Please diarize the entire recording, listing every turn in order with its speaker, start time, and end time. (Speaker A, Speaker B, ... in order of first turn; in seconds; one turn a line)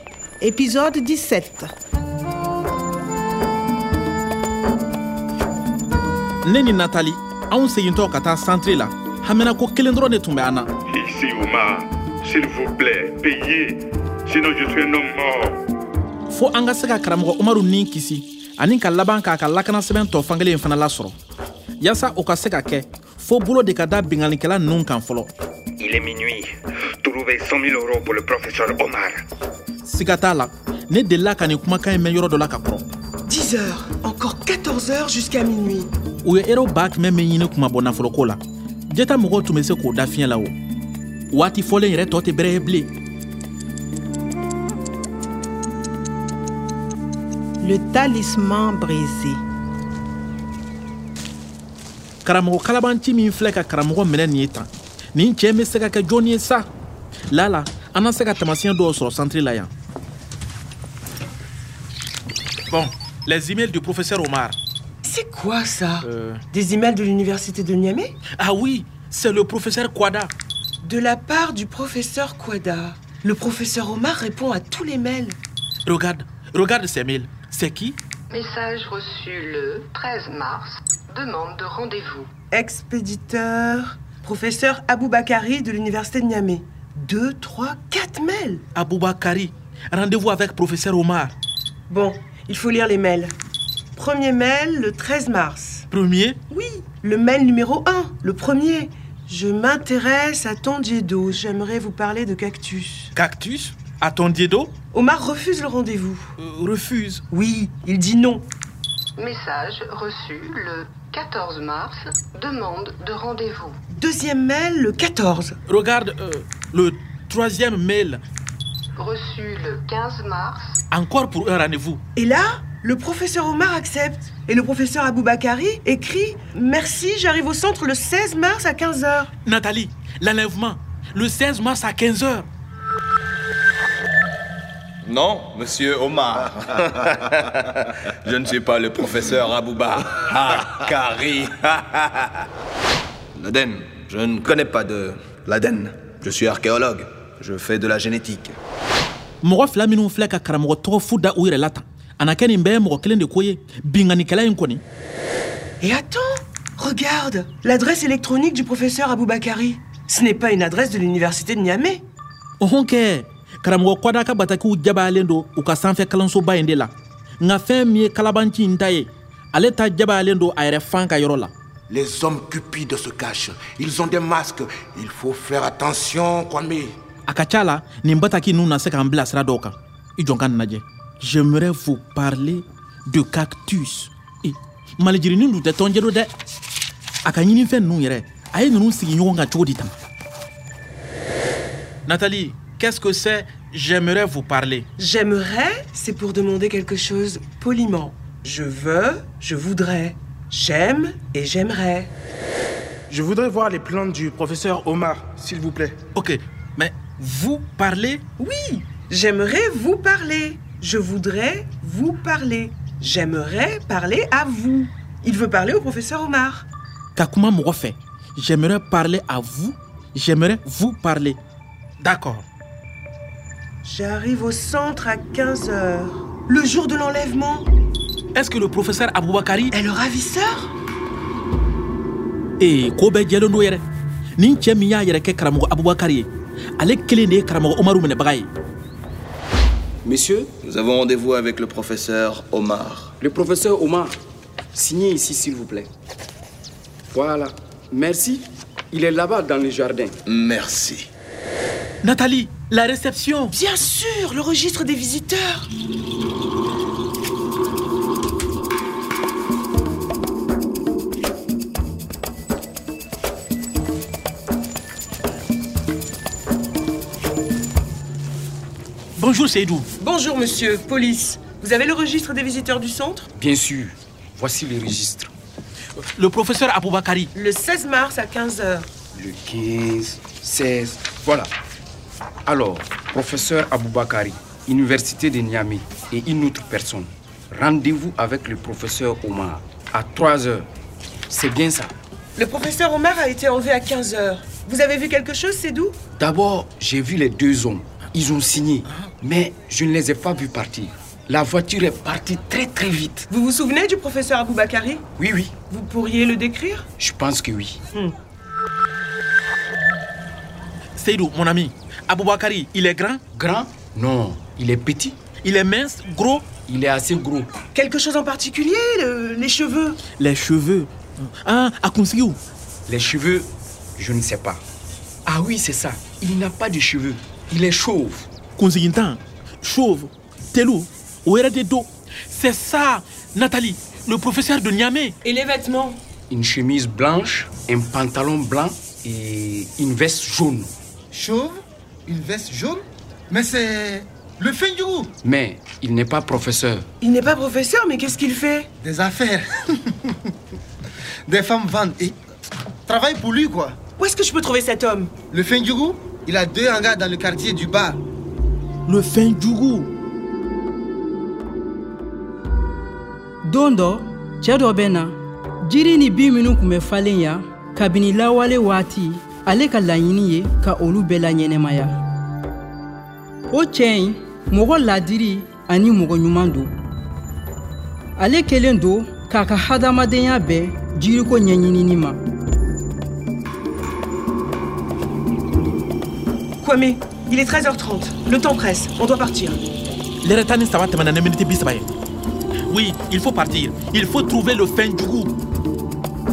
Speaker A: 0.4-1.7
Speaker B: 6.4-10.7
Speaker C: 10.9-15.6
Speaker B: 16.3-21.1
Speaker B: 21.8-25.3
Speaker D: 25.8-26.5
Speaker D: 27.1-29.2
Speaker B: 29.8-32.9
Speaker E: 33.2-35.9
Speaker B: 36.2-40.5
Speaker B: 41.3-42.9
Speaker A: 47.6-49.4
Speaker B: 52.2-56.7
Speaker B: 57.3-59.7
Speaker B: 62.7-64.6
Speaker E: 65.0-68.2
Speaker B: 66.0-66.4
Speaker B: 68.4-70.3
Speaker E: 70.8-75.4
Speaker B: 75.8-78.0
Speaker F: 78.3-82.3
Speaker E: 82.5-88.6
Speaker B: 88.7-91.3
Speaker E: 91.9-93.3
Speaker E: 94.0-95.9
Speaker B: 95.9-96.4
Speaker E: 96.5-103.1
Speaker B: 103.1-104.7
Speaker E: 104.9-106.3
Speaker B: 106.4-107.2
Speaker E: 107.3-108.5
Speaker F: 109.2-113.8
Speaker E: 113.9-115.6
Speaker B: 115.7-118.2
Speaker F: 119.0-120.8
Speaker B: 120.9-122.0
Speaker E: 122.1-129.3
Speaker B: 129.4-132.5
Speaker G: 135.0-142.4
Speaker G: 143.3-148.6
Speaker B: 149.4-154.8
Speaker E: 155.8-162.0
Speaker B: 162.6-171.5
Speaker H: 171.9-176.9
Speaker B: 177.3-186.3
Speaker B: 187.2-189.9
Speaker B: 192.1-194.9
Speaker E: 195.0-202.1
Speaker I: 203.1-206.0
Speaker B: 206.1-208.2
Speaker E: 208.4-216.7
Speaker B: 217.2-221.4
Speaker B: 222.0-222.4
Speaker E: 223.8-227.7
Speaker B: 228.3-229.7
Speaker E: 229.7-230.7
Speaker B: 232.6-233.8
Speaker B: 234.4-238.5
Speaker D: 240.0-240.5
Speaker G: 240.6-243.1
Speaker D: 243.2-244.2
Speaker D: 244.7-245.9
Speaker D: 247.1-250.2
Speaker G: 250.2-251.1
Speaker B: 252.0-253.5
Speaker E: 253.5-255.7
Speaker B: 269.1-269.9
Speaker E: 270.0-273.3
Speaker D: 273.3-275.3
Speaker B: 276.1-277.3
Speaker E: 277.3-278.9
Speaker D: 279.1-281.5
Speaker D: 282.4-290.7
Speaker D: 291.3-291.9
Speaker E: 292.4-296.0
Speaker D: 296.2-303.3
Speaker E: 303.3-305.0
Speaker D: 305.2-305.6
Speaker E: 305.6-306.9
Speaker D: 307.0-307.8
Speaker B: 310.9-313.2
Speaker D: 313.3-315.2
Speaker B: 315.4-316.5
Speaker D: 316.6-317.6
Speaker E: 317.7-320.0
Speaker B: 320.2-322.4
Speaker D: 322.9-324.6
Speaker D: 325.2-328.3
Speaker B: 328.6-335.1
Speaker E: 335.2-336.0
Speaker D: 336.3-340.7
Speaker J: 341.1-345.1
Speaker D: 345.2-346.9
Speaker E: 347.0-348.7
Speaker J: 348.8-349.8
Speaker J: 351.2-352.2
Speaker J: 352.9-353.8
Speaker E: 354.0-355.1
Speaker J: 355.3-358.0
Speaker B: 358.9-359.9
Speaker K: 363.4-372.0
Speaker K: 373.5-376.7
Speaker K: 378.2-382.2
Speaker E: 386.6-389.6
Speaker B: 390.2-391.9
Speaker B: 392.7-395.3